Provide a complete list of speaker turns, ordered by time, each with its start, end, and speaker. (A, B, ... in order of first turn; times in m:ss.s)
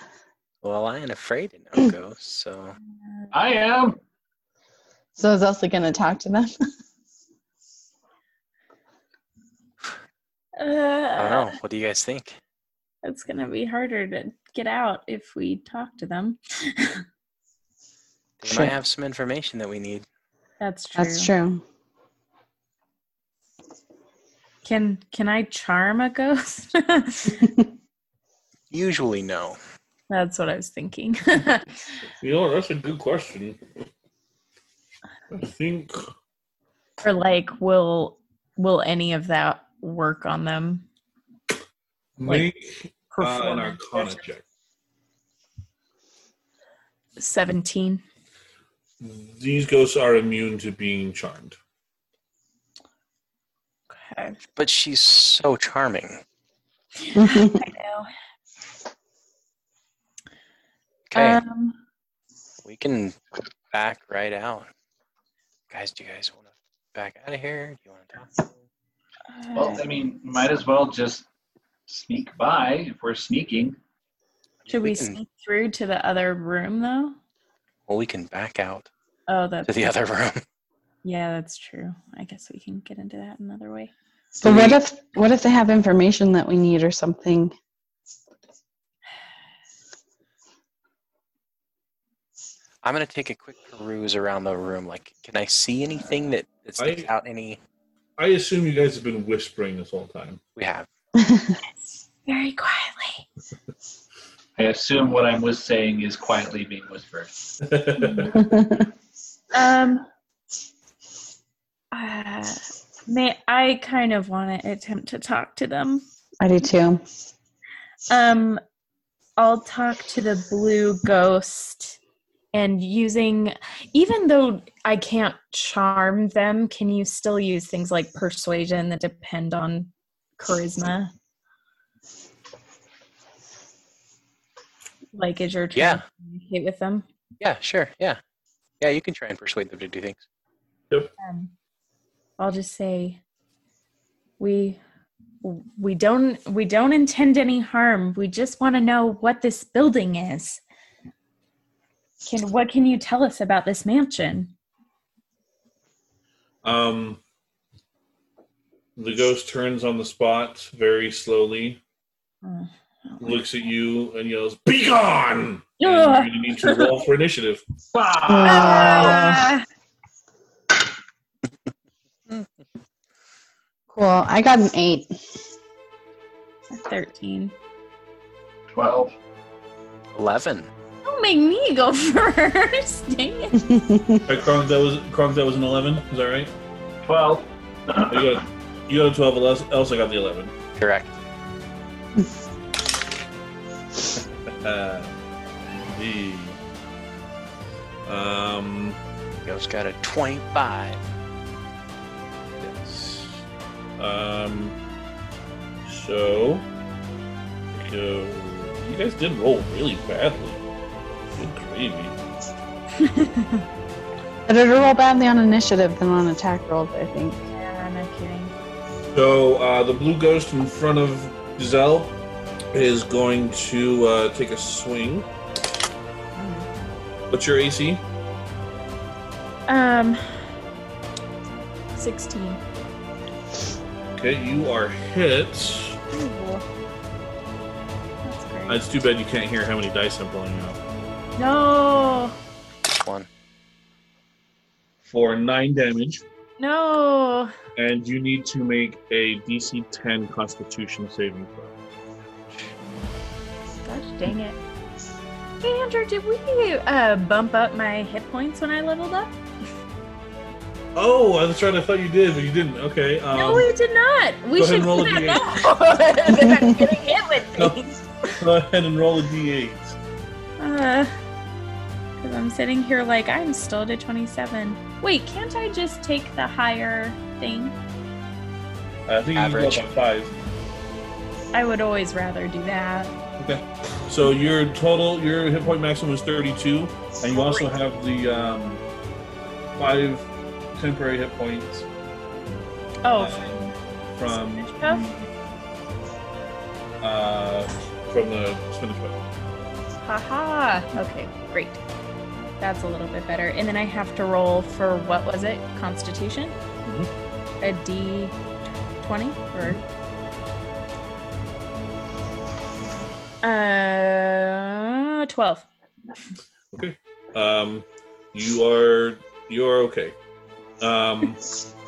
0:00.6-0:02.8 A
0:03.3-0:04.0 B
0:05.2-0:06.5 C
0:10.6-0:11.6 D
0:11.2-0:12.4 A
0:13.0-0:17.0 D
0:18.4-0:20.0 A
0:18.5-0:18.7 C
0:20.6-0:21.3 D
0:20.9-0:21.6 C
0:24.6-0:27.4 D
0:28.7-0:29.6 A
0:30.1-0:31.7 D
0:32.2-0:33.6 E
0:35.3-0:36.1 E
0:37.0-0:40.8 D
0:42.2-0:44.4 E
0:43.1-0:44.2 D
0:47.2-0:48.0 D
0:49.0-0:51.6 E
0:53.9-0:54.4 D
0:54.6-0:56.2 A
0:57.0-0:58.1 D
0:57.2-0:57.6 C
1:01.1-1:01.4 A
1:01.1-1:01.8 D
1:02.6-1:03.2 A
1:03.7-1:04.7 A
1:05.7-1:08.6 A
1:09.3-1:09.8 D
1:09.5-1:11.3 B
1:11.9-1:13.8 B
1:14.6-1:15.2 A
1:14.7-1:17.2 D
1:17.9-1:18.9 A
1:19.3-1:19.9 D
1:19.6-1:20.4 A
1:21.0-1:23.9 D
1:24.4-1:24.8 A
1:24.4-1:27.5 C
1:32.8-1:37.6 A
1:36.8-1:37.1 E
1:38.2-1:40.4 E
1:40.6-1:40.9 A
1:41.2-1:41.6 C
1:42.2-1:43.2 D
1:44.6-1:47.3 B
1:47.6-1:48.4 E
1:48.0-1:48.4 D
1:48.3-1:48.9 C
1:49.5-1:50.0 D
1:51.9-1:56.0 D
1:56.4-1:57.0 C
1:58.1-1:58.6 D
1:59.4-2:02.0 D
2:02.5-2:11.1 D
2:15.1-2:17.0 D
2:15.7-2:16.0 A
2:17.4-2:18.2 A
2:18.8-2:20.2 A
2:21.2-2:21.5 D
2:22.4-2:23.2 D
2:24.4-2:24.8 D
2:25.4-2:30.6 D
2:32.2-2:34.5 D
2:36.6-2:37.2 E
2:39.0-2:41.8 E
2:42.4-2:43.4 D
2:43.2-2:47.6 E
2:45.8-2:46.9 D
2:47.9-2:49.2 B
2:48.2-2:49.2 C
2:48.4-2:49.6 D
2:53.9-2:55.4 C
2:56.7-2:57.5 D
2:58.7-2:59.1 B
3:00.1-3:00.7 A
3:01.0-3:03.6 D
3:03.6-3:04.2 C
3:04.2-3:06.5 E
3:07.0-3:08.4 B
3:08.1-3:10.5 E
3:10.8-3:11.2 A
3:14.6-3:15.1 E
3:15.9-3:16.6 E
3:18.0-3:19.0 E
3:19.4-3:21.1 A
3:22.6-3:23.4 E
3:24.0-3:24.7 E
3:25.8-3:26.6 E
3:27.7-3:30.6 E
3:31.3-3:32.2 E
3:33.0-3:33.6 D
3:34.5-3:37.4 C
3:37.5-3:38.5 D
3:39.1-3:42.1 E
3:42.7-3:45.2 E
3:46.4-3:46.7 D
3:47.3-3:48.0 E
3:49.7-3:50.5 D
3:51.9-3:52.6 D
3:54.2-3:56.0 E
3:56.1-3:56.6 D
3:58.2-3:58.8 D
3:58.7-4:00.8 E
4:01.4-4:02.4 D
4:02.9-4:03.3 A
4:05.0-4:06.2 E
4:06.6-4:07.5 D
4:07.8-4:11.7 E
4:13.8-4:14.6 D
4:15.6-4:19.4 D
4:20.9-4:23.7 E
4:23.3-4:28.4 D
4:24.6-4:25.5 E
4:28.4-4:30.0 E
4:30.6-4:31.1 D
4:32.2-4:37.8 D
4:39.1-4:40.3 E
4:39.3-4:39.9 A
4:41.5-4:43.1 D
4:43.4-4:48.8 E
4:47.3-4:47.7 D
4:49.8-4:51.9 E
4:53.0-4:53.7 D
4:53.2-4:55.3 E
4:54.3-4:55.1 D
4:57.0-4:59.2 E
5:00.0-5:01.8 D
5:02.6-5:06.6 D
5:06.8-5:07.1 E
5:07.6-5:08.3 D
5:09.0-5:09.8 D
5:13.4-5:15.7 D
5:16.7-5:20.2 E
5:20.8-5:21.4 E